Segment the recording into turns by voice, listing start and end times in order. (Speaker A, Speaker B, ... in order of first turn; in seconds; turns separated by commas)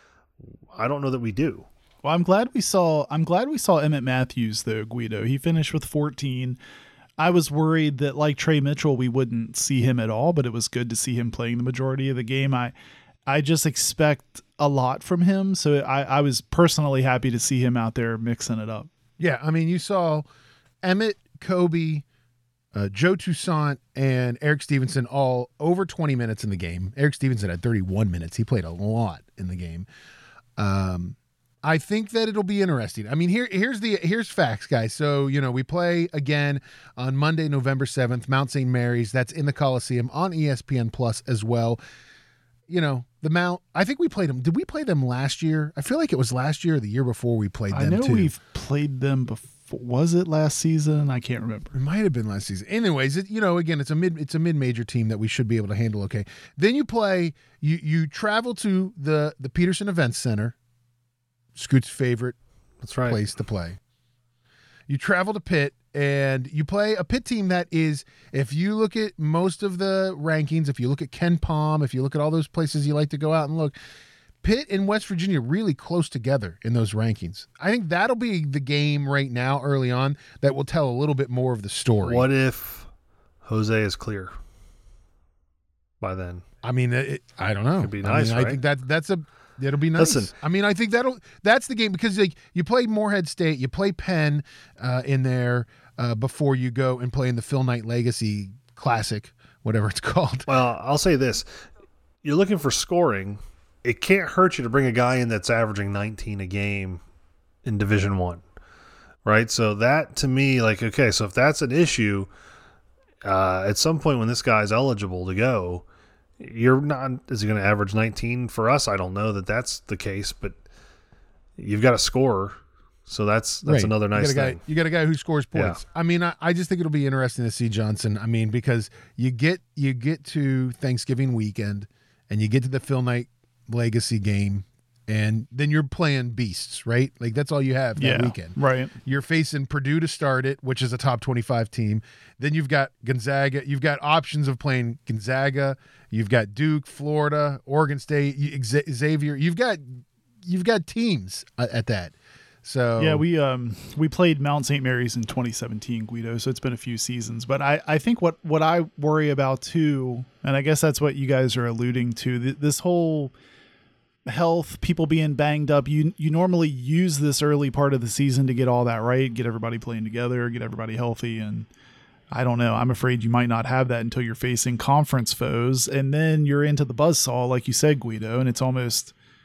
Speaker A: 0.4-1.7, Speaker B: 2.0-6.6, Speaker B: 7.2-12.7, Speaker B: 13.3-18.9, Speaker C: 19.2-20.3, Speaker C: 20.8-22.0, Speaker C: 22.7-29.9, Speaker C: 30.6-41.8, Speaker C: 42.7-48.3, Speaker B: 47.7-51.8, Speaker C: 51.7-60.5, Speaker C: 61.5-62.4, Speaker A: 62.8-63.2, Speaker C: 63.0-63.8, Speaker C: 64.9-73.7, Speaker C: 74.4-82.2, Speaker A: 82.0-82.9, Speaker A: 83.4-84.3, Speaker A: 86.0-86.4, Speaker C: 86.6-100.5, Speaker A: 87.8-88.6, Speaker A: 90.0-90.3, Speaker A: 100.5-101.5, Speaker A: 102.2-107.0, Speaker A: 107.6-108.4, Speaker A: 109.2-112.3, Speaker A: 113.2-115.8, Speaker A: 116.4-120.5, Speaker A: 121.6-124.6, Speaker C: 123.6-153.2, Speaker A: 125.5-125.8, Speaker B: 138.0-138.9, Speaker B: 153.0-163.3, Speaker B: 164.2-171.7, Speaker B: 172.3-179.1